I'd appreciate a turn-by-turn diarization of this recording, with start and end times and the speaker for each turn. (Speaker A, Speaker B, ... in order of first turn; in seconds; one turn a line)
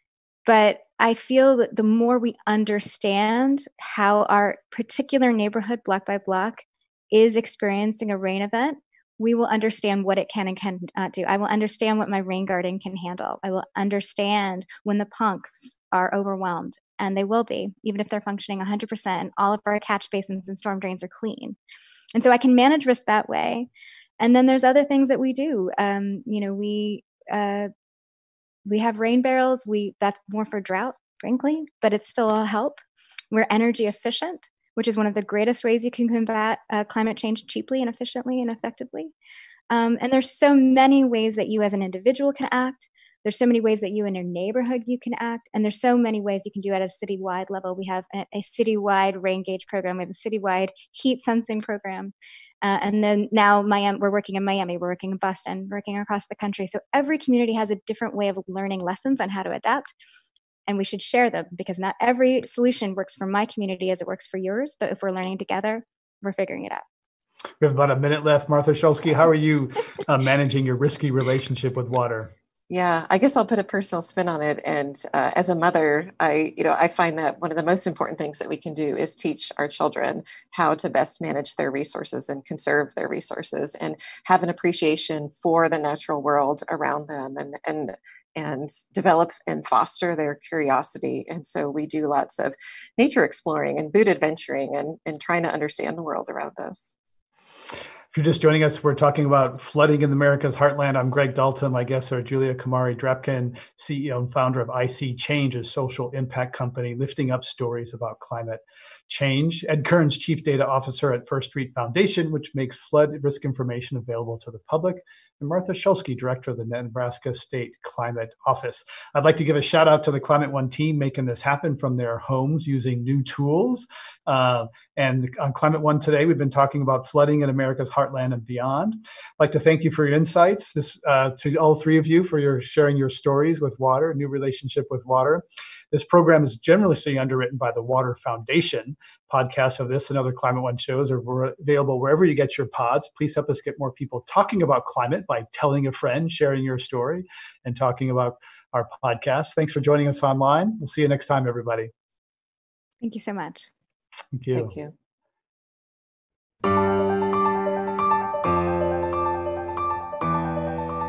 Speaker A: 0.5-21.6
Speaker A: 22.1-23.7
Speaker A: 24.2-27.7
Speaker A: 28.7-32.8
Speaker A: 33.3-39.1
Speaker A: 39.7-59.9
Speaker A: 60.7-66.8
Speaker B: 67.6-72.3
Speaker C: 72.7-96.9
Speaker B: 98.1-151.9
Speaker A: 153.0-153.7
Speaker B: 154.3-154.7
Speaker C: 154.6-154.9